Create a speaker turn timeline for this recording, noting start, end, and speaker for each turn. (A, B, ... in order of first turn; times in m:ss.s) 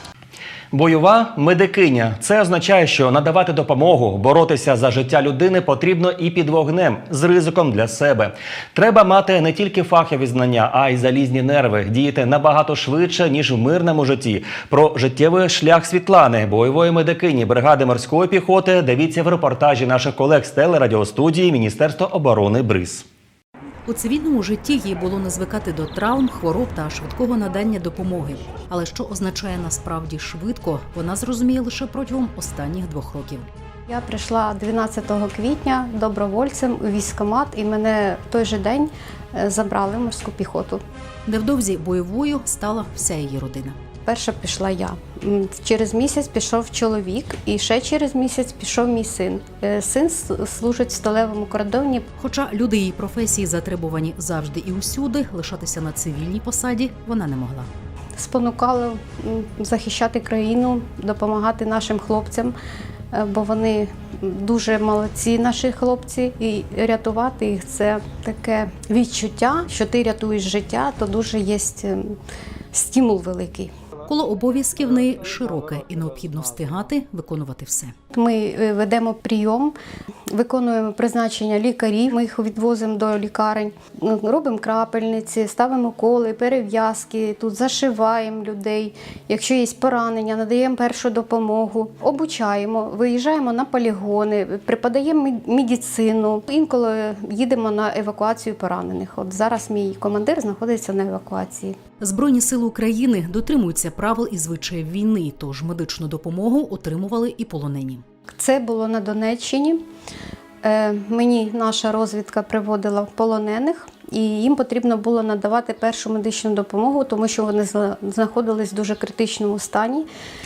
0:00.7-0:23.0 A
0:23.8-0:33.5 B
0:33.9-0:40.8 C
0:41.3-0:43.8 B
0:44.0-0:52.1 C
0:52.2-0:57.7 B
0:58.2-1:02.5 C
1:03.1-1:12.2 C
1:12.7-1:13.7 C
1:14.1-1:17.9 B
1:18.1-1:19.8 C
1:20.3-1:41.8 C
1:42.0-1:48.0 B
1:48.3-1:49.8 C
1:50.6-2:00.1 C